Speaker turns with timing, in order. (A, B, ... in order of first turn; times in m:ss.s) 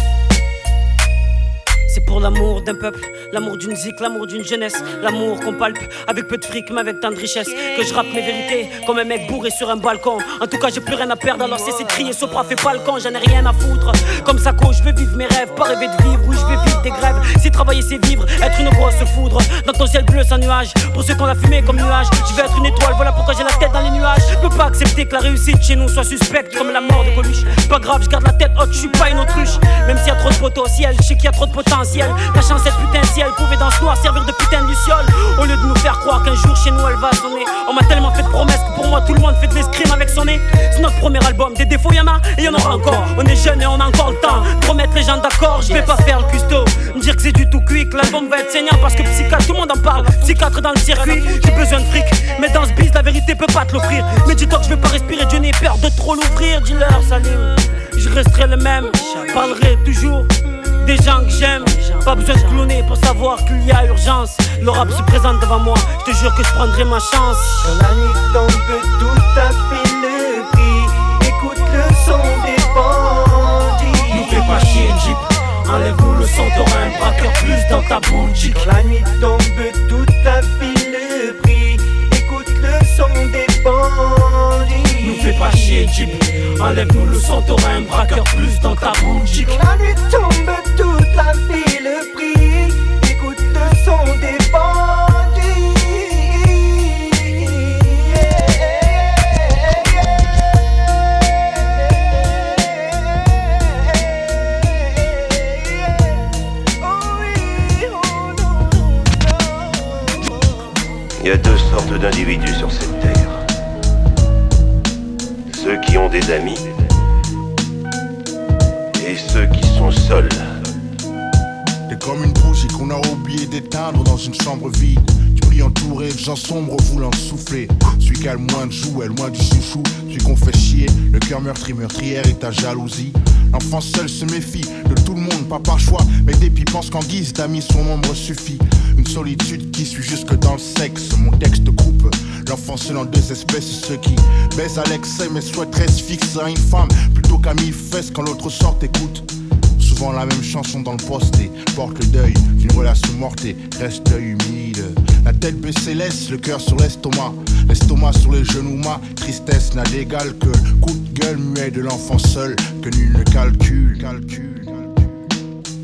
0:01.9-1:07.7 A
1:07.6-1:14.5 B
1:14.1-1:18.6 A
1:18.5-1:25.2 B
1:25.0-1:29.5 A
1:29.4-1:40.2 B
1:46.9-1:48.3 B
1:51.2-1:53.3 C
1:55.5-1:56.6 C
1:59.0-2:00.4 C
2:01.9-2:29.3 D
2:29.8-2:45.1 D